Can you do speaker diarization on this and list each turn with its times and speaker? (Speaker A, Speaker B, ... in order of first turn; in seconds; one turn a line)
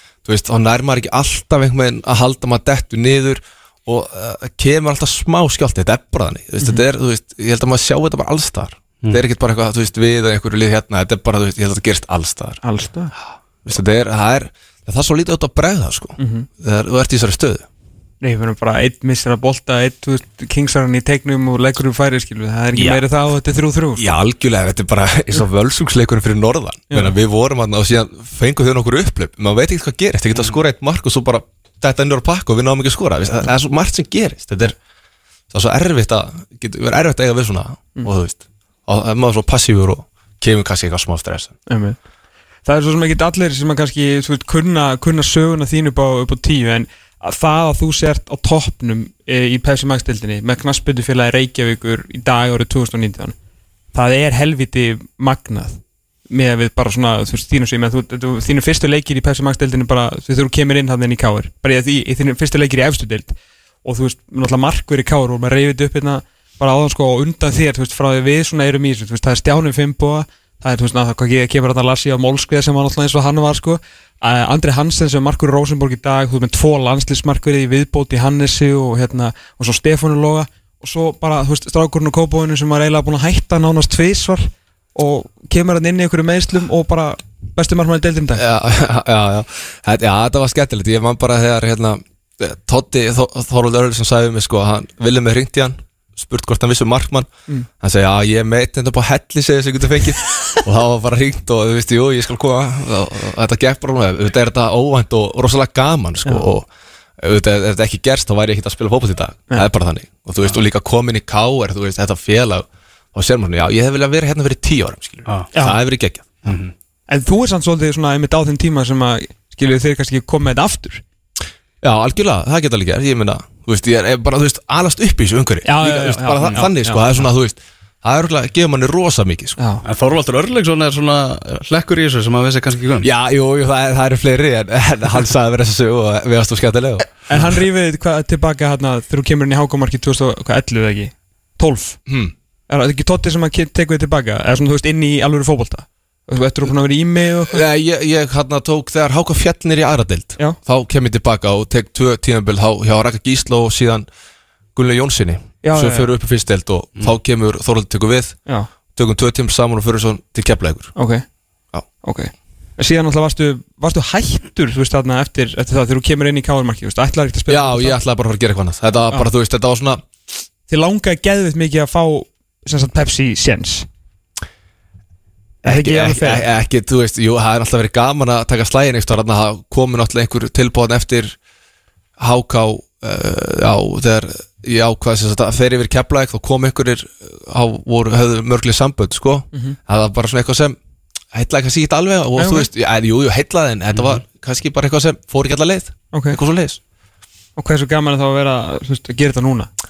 Speaker A: 0.2-12.6
Speaker B: 12.6-13.1
Speaker A: 13.6-17.6
Speaker B: 16.2-16.5
Speaker B: 18.2-24.1
Speaker A: 22.7-23.0
Speaker A: 24.0-34.8
Speaker A: 35.5-41.5
Speaker B: 41.7-42.0
Speaker B: 42.6-53.4
Speaker B: 53.9-88.4
Speaker A: 88.3-97.3
Speaker A: 97.8-106.7
Speaker A: 107.2-116.5
Speaker B: 115.5-115.8
Speaker C: 116.5-116.7
Speaker B: 117.1-121.0
Speaker A: 121.8-129.6
Speaker B: 125.6-127.3
Speaker B: 129.6-129.8
Speaker C: 129.8-133.1
Speaker A: 133.0-137.1
Speaker B: 137.3-142.0
Speaker A: 142.1-142.3
Speaker B: 142.7-147.6
Speaker A: 147.5-154.1
Speaker A: 154.7-158.4
Speaker B: 155.6-156.1
Speaker A: 158.9-160.9
Speaker B: 160.9-161.2
Speaker B: 162.0-168.0
Speaker A: 167.5-170.0
Speaker B: 170.7-173.9
Speaker B: 175.6-176.4
Speaker A: 175.6-181.4
Speaker A: 182.2-190.8
Speaker A: 191.3-196.8
Speaker B: 192.4-192.7
Speaker C: 193.9-194.2
Speaker B: 196.1-196.4
Speaker B: 197.6-199.7